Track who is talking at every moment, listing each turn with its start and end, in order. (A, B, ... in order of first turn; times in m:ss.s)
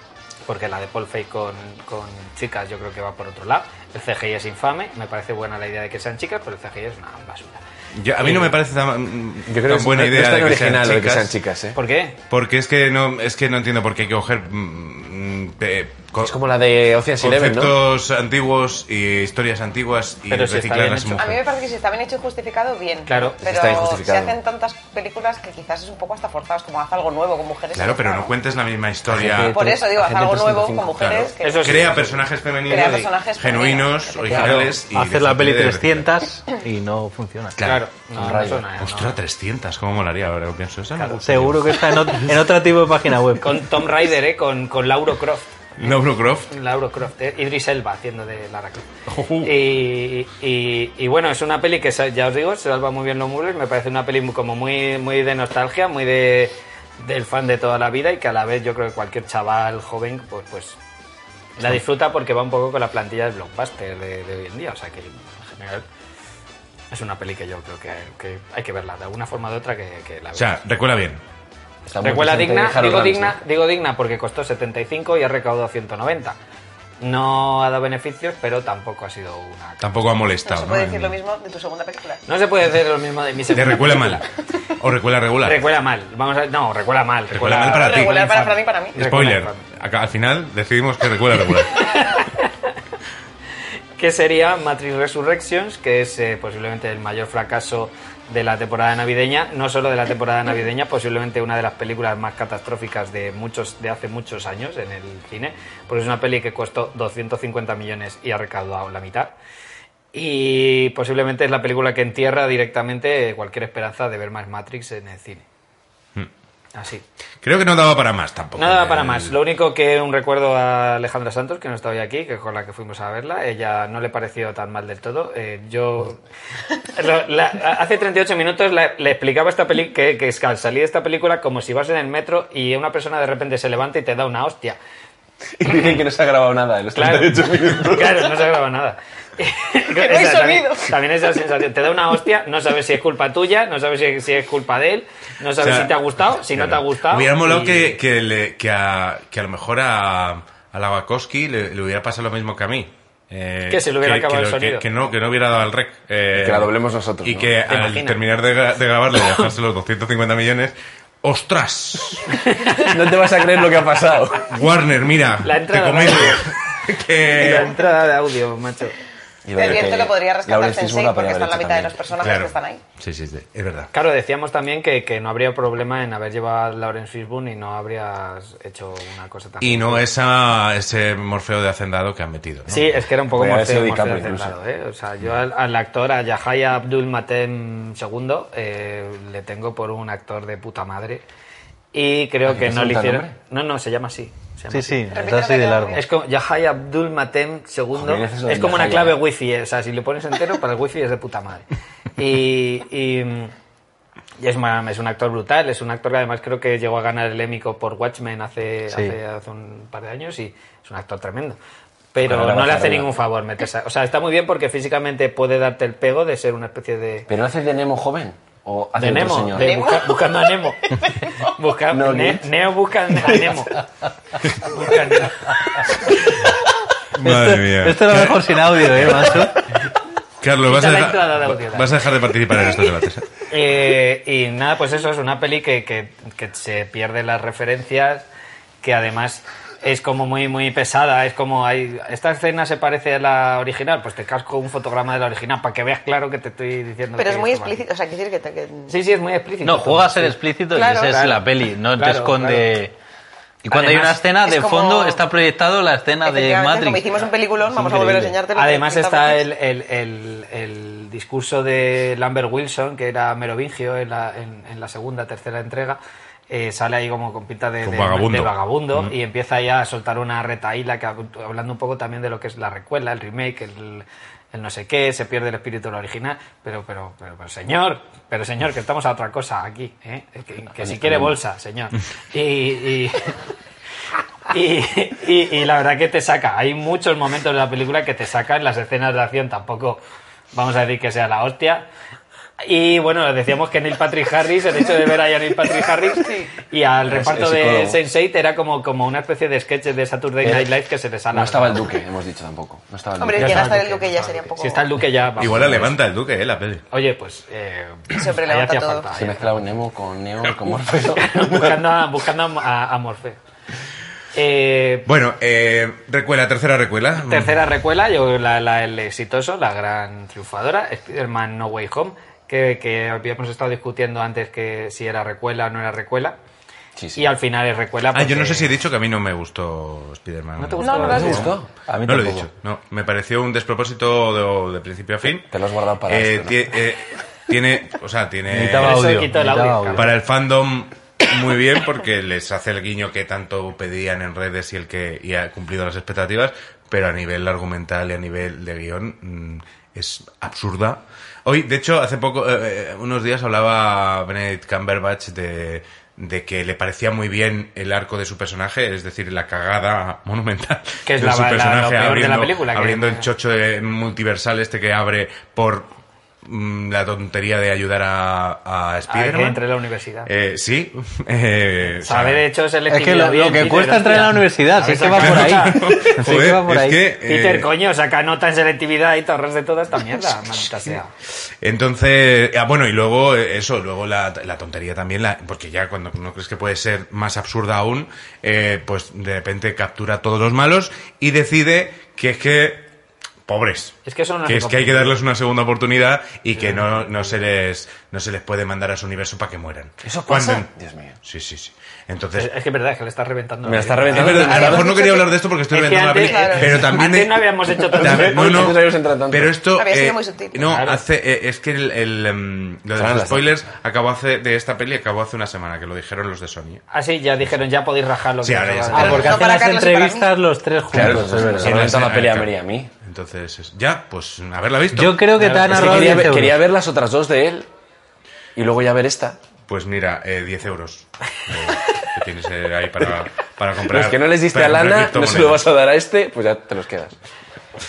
0:00.5-0:07.6 A
0:07.9-0:11.4 B
0:09.5-0:11.8 C
0:11.8-0:12.2 A
0:12.3-0:16.4 B
0:16.2-0:17.8 C
0:17.2-0:21.4 B
0:20.3-0:21.2 A
0:21.2-0:28.3 D
0:23.1-0:23.8 A
0:23.4-0:24.4 C
0:27.7-0:29.6 B
0:29.1-0:31.2 C
0:29.4-0:32.0 D
0:31.0-0:36.1 B
0:31.4-0:33.0 A
0:32.7-0:34.8 D
0:34.3-0:37.6 E
0:37.6-0:37.8 B
0:37.6-0:39.2 A
0:38.2-0:38.6 C
0:38.8-0:42.1 B
0:41.0-0:41.2 A
0:41.2-0:43.7 E
0:43.4-0:45.4 A
0:45.8-0:46.5 B
0:46.5-0:48.9 A
0:49.1-0:49.5 B
0:49.4-1:00.8 A
1:01.6-1:05.8 A
1:06.9-1:10.6 A
1:10.4-1:11.2 B
1:11.9-1:13.4 C
1:12.0-1:16.4 A
1:17.0-1:19.8 A
1:19.8-1:21.2 B
1:20.4-1:22.2 D
1:22.3-1:24.3 A
1:23.5-1:24.2 B
1:24.8-1:25.6 B
1:25.4-1:29.7 A
1:27.3-1:28.2 B
1:27.7-1:29.0 D
1:29.0-1:31.8 B
1:31.8-1:32.5 A
1:34.0-1:49.3 A
1:50.1-1:55.4 A
1:56.8-1:57.0 A
1:57.4-1:59.4 B
1:58.6-2:06.2 A
2:06.8-2:14.8 A
2:15.6-2:18.4 C
2:17.0-2:28.0 A
2:19.9-2:20.9 D
2:25.6-2:42.3 B
2:33.7-2:34.9 A
2:36.3-2:37.5 C
2:37.7-2:38.2 A
2:42.3-2:43.0 A
2:42.8-2:44.4 C
2:44.5-2:47.8 B
2:45.4-2:46.5 A
2:47.3-2:49.0 A
2:49.4-2:52.0 C
2:49.6-2:52.8 D
2:52.2-2:53.9 B
2:53.9-3:00.1 A
2:59.6-3:03.0 B
3:02.7-3:11.2 A
3:03.3-3:04.6 C
3:11.9-3:15.0 A
3:12.5-3:13.3 C
3:14.7-3:16.0 E
3:15.1-3:16.0 D
3:15.9-3:21.6 A
3:17.9-3:19.2 C
3:22.2-3:23.5 A
3:24.4-3:31.6 A
3:28.9-3:29.2 E
3:32.1-3:37.3 A
3:32.2-3:33.1 C
3:37.3-3:39.9 C
3:39.0-3:40.8 A
3:39.5-3:41.3 D
3:41.4-3:43.8 A
3:41.9-3:42.5 C
3:43.2-3:43.6 C
3:44.6-3:45.5 A
3:47.2-3:49.3 B
3:47.2-3:49.6 E
3:50.4-3:53.3 B
3:50.7-3:51.9 A
3:53.5-3:58.3 A
3:58.8-4:07.8 A
4:07.2-4:08.9 D
4:08.9-4:10.4 A
4:09.6-4:12.9 E
4:10.8-4:11.3 D
4:11.0-4:11.4 A
4:12.0-4:12.7 A
4:13.6-4:17.1 E
4:13.7-4:14.2 A
4:14.4-4:15.2 D
4:16.2-4:19.4 D
4:17.7-4:18.4 E
4:18.6-4:26.0 A
4:26.5-4:43.3 A
4:27.8-4:29.1 B
4:40.8-4:41.3 C
4:44.5-4:50.0 A
4:50.5-4:51.9 A
4:52.6-5:01.9 A
4:57.1-4:58.0 C
5:00.4-5:00.7 C
5:01.3-5:03.8 C
5:03.2-5:04.8 D
5:03.3-5:06.0 A
5:05.4-5:06.8 B
5:06.9-5:09.6 A
5:08.1-5:09.1 D
5:09.1-5:11.8 C
5:11.1-5:13.4 A
5:14.3-5:15.1 A
5:15.1-5:17.6 B
5:17.2-5:26.4 A
5:27.0-5:27.2 C
5:27.2-5:28.7 A
5:28.1-5:35.5 B
5:30.6-5:31.5 A
5:30.8-5:31.6 D
5:31.1-5:31.7 C
5:31.9-5:32.5 E
5:35.5-5:36.6 C
5:36.1-5:39.2 B
5:38.5-5:40.1 E
5:38.8-5:40.1 A
5:40.0-6:05.9 B
6:01.1-6:03.3 A
6:06.4-6:09.6 B
6:09.1-6:10.3 A
6:10.2-6:12.4 B
6:12.0-6:15.8 A
6:12.9-6:17.0 E
6:15.1-6:17.7 B
6:17.2-6:21.1 A
6:21.6-6:32.9 B
6:33.5-6:40.7 B
6:34.0-6:35.2 A
6:36.6-6:36.8 A
6:40.0-6:41.2 C
6:41.2-6:42.5 B
6:42.4-6:44.9 A
6:43.6-6:45.0 C
6:44.1-6:56.8 B
6:44.7-6:45.3 D
6:45.7-6:48.7 A
6:46.2-6:46.7 D
6:47.9-6:49.6 C
6:49.7-6:50.6 D
6:50.6-6:51.0 A
6:53.0-6:53.5 C
6:56.9-6:59.4 A
6:58.4-6:59.4 B
6:58.9-7:00.3 D
6:58.9-7:01.8 E
7:00.9-7:02.9 C
7:01.6-7:05.2 B
7:04.9-7:06.6 E
7:05.4-7:06.2 A
7:05.7-7:07.7 C
7:08.6-7:09.4 C
7:09.7-7:15.6 B
7:13.9-7:17.2 C